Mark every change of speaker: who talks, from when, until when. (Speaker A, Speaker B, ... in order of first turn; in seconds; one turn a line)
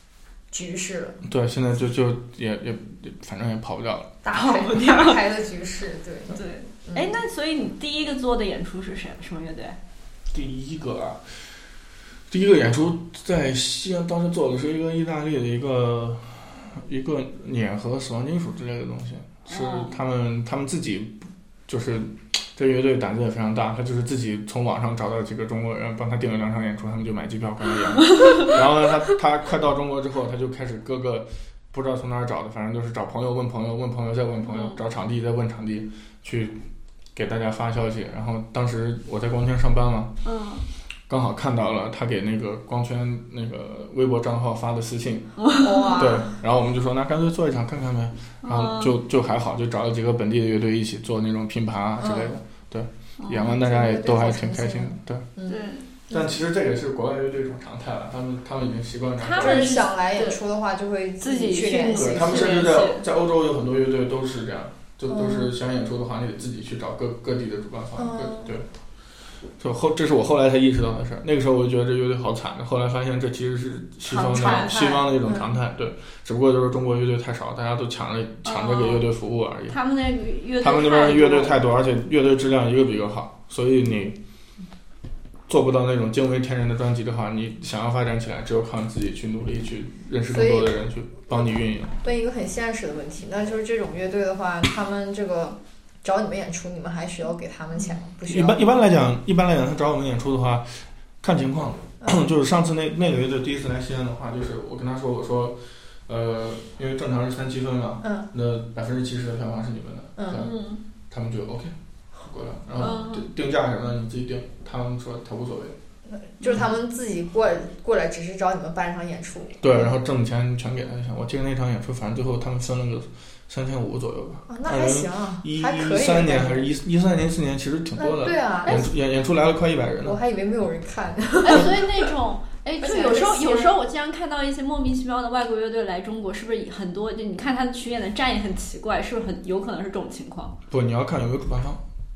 Speaker A: 0.5-1.2
Speaker B: 1.2-4.2
Speaker A: 4.2-7.1
Speaker C: 4.3-5.2
Speaker C: 6.3-9.8
Speaker B: 10.3-11.2
Speaker B: 12.3-36.6
Speaker C: 19.5-19.9
Speaker C: 34.5-34.8
Speaker B: 37.1-40.1
Speaker C: 40.2-40.6
Speaker B: 41.1-45.4
Speaker C: 45.4-45.9
Speaker A: 45.6-46.3
Speaker B: 45.9-55.3
Speaker C: 48.4-49.0
Speaker A: 52.0-52.4
Speaker C: 53.2-53.5
Speaker A: 53.4-56.3
Speaker C: 55.5-55.9
Speaker B: 56.1-59.9
Speaker C: 59.2-60.4
Speaker A: 59.4-62.6
Speaker C: 61.2-63.1
Speaker B: 61.9-68.7
Speaker A: 65.1-65.5
Speaker A: 68.0-68.5
Speaker B: 69.6-79.8
Speaker A: 74.1-75.5
Speaker C: 74.3-74.7
Speaker C: 78.5-79.1
Speaker C: 79.7-81.6
Speaker B: 80.6-84.2
Speaker B: 85.5-92.0
Speaker A: 90.3-90.8
Speaker A: 92.0-98.6
Speaker B: 98.2-110.5
Speaker A: 110.2-110.5
Speaker C: 110.3-110.8
Speaker B: 111.1-115.8
Speaker C: 112.8-113.3
Speaker A: 116.1-119.9
Speaker B: 119.6-130.2
Speaker A: 124.5-126.7
Speaker A: 128.0-128.9
Speaker A: 130.0-131.8
Speaker C: 131.4-140.6
Speaker A: 132.8-133.8
Speaker B: 140.7-141.8